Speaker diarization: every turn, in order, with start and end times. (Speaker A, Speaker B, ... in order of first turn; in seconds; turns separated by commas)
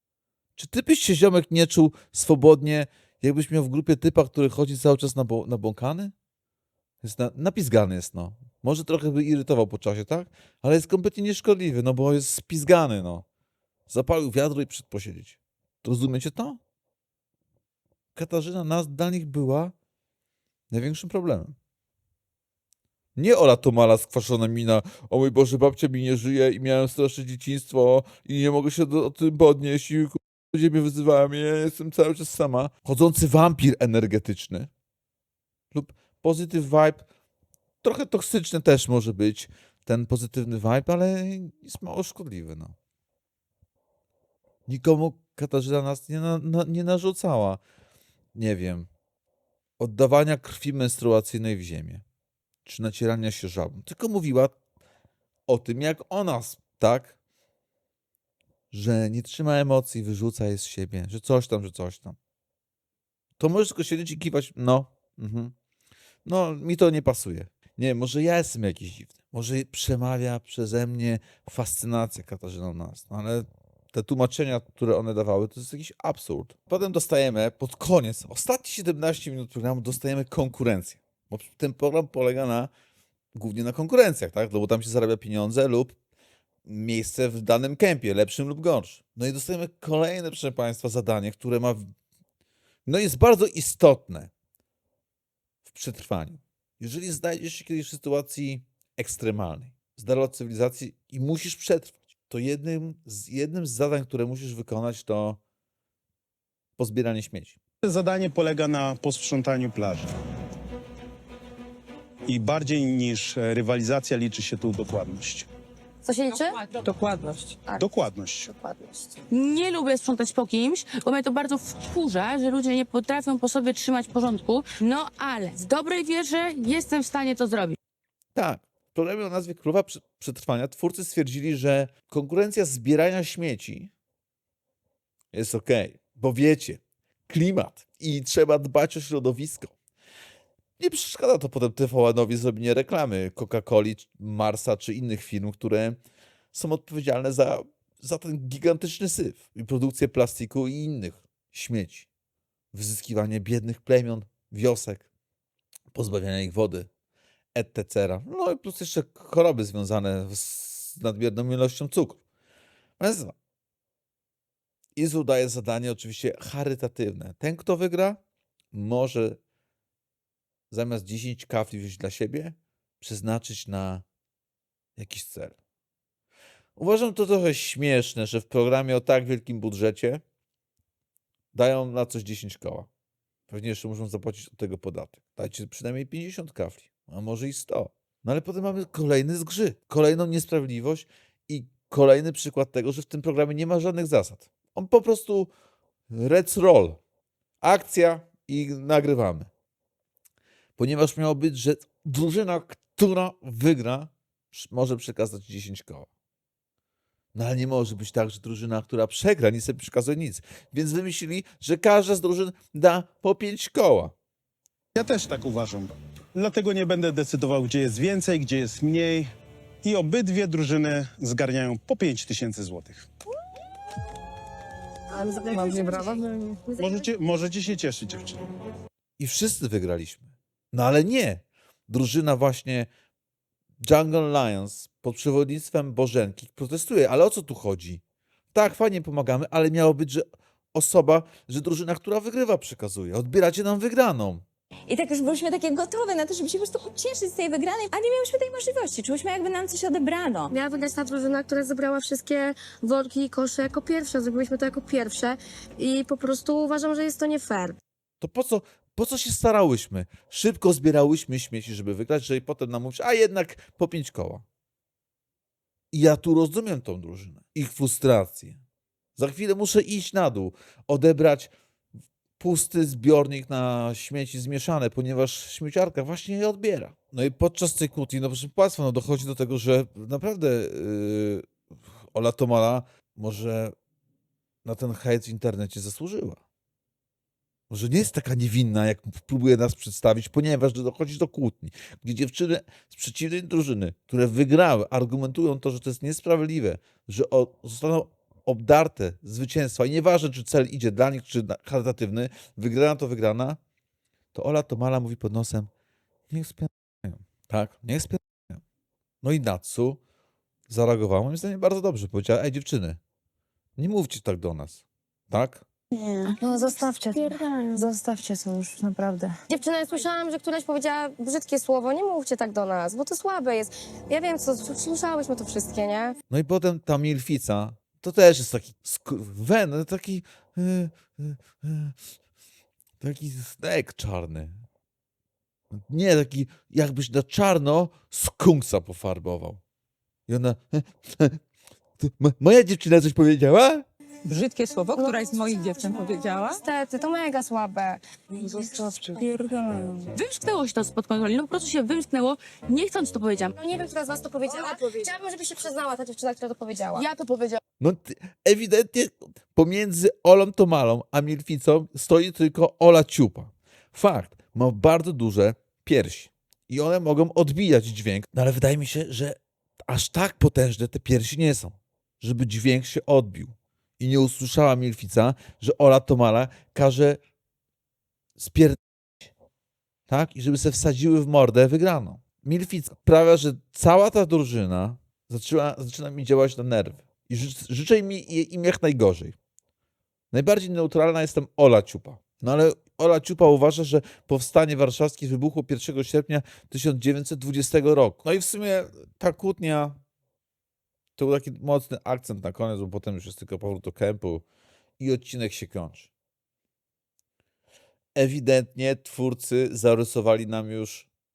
Speaker A: 0.6-6.1, Speaker A: 7.0-13.2, Speaker A: 13.9-16.6, Speaker A: 18.1-19.7, Speaker A: 20.7-21.6, Speaker A: 23.1-34.7, Speaker A: 35.7-37.0, Speaker A: 37.8-42.8, Speaker A: 44.7-47.6, Speaker A: 48.3-48.9, Speaker A: 49.8-52.0, Speaker A: 52.6-54.5, Speaker A: 55.5-57.1, Speaker A: 58.7-62.2, Speaker A: 63.4-65.5, Speaker A: 66.2-82.7, Speaker A: 83.3-86.0, Speaker A: 86.7-91.9, Speaker A: 92.8-94.3, Speaker A: 95.6-105.4, Speaker A: 106.8-107.5, Speaker B: 107.8-110.1, Speaker B: 112.3-115.5, Speaker C: 116.0-116.7, Speaker D: 116.9-117.4, Speaker B: 117.8-118.5, Speaker C: 118.5-119.2, Speaker E: 119.3-127.8, Speaker A: 128.3-133.9, Speaker A: 135.3-139.7, Speaker A: 140.8-146.0, Speaker A: 146.5-152.1, Speaker A: 152.7-155.1, Speaker A: 155.9-156.9, Speaker A: 157.5-162.2, Speaker A: 163.0-163.3, Speaker A: 164.9-168.2, Speaker A: 168.7-169.4, Speaker A: 170.7-174.0, Speaker A: 175.0-175.6, Speaker A: 176.8-180.2, Speaker A: 181.5-182.9, Speaker A: 183.5-195.5, Speaker A: 196.1-197.0, Speaker A: 197.6-199.5, Speaker A: 200.8-206.1, Speaker A: 207.3-214.1, Speaker B: 214.9-219.3, Speaker B: 219.8-223.1, Speaker C: 225.1-227.1, Speaker B: 226.8-228.4, Speaker A: 229.2-232.9, Speaker A: 233.8-238.0, Speaker A: 238.5-244.4, Speaker D: 244.9-250.5, Speaker C: 250.5-257.8, Speaker A: 258.2-264.4, Speaker A: 265.9-268.6, Speaker A: 269.2-271.5, Speaker A: 272.4-281.5, Speaker A: 282.1-283.7, Speaker A: 284.6-286.4, Speaker A: 287.7-303.6, Speaker A: 304.3-305.7, Speaker A: 306.3-308.6, Speaker A: 309.2-310.0, Speaker A: 310.7-313.0, Speaker A: 313.8-315.6, Speaker D: 315.9-319.3, Speaker C: 316.4-317.3, Speaker C: 319.5-326.1, Speaker A: 326.3-332.0, Speaker A: 333.0-334.6, Speaker A: 335.7-339.6, Speaker A: 340.3-341.4, Speaker A: 342.0-343.9, Speaker F: 344.2-346.6, Speaker C: 344.9-349.2, Speaker F: 349.2-349.6, Speaker E: 350.1-353.6, Speaker C: 353.6-357.1, Speaker E: 356.9-357.6, Speaker A: 357.8-377.2, Speaker A: 378.4-379.3, Speaker A: 380.1-389.4, Speaker A: 390.3-400.0, Speaker A: 401.2-404.4, Speaker A: 405.0-406.1, Speaker A: 408.1-411.1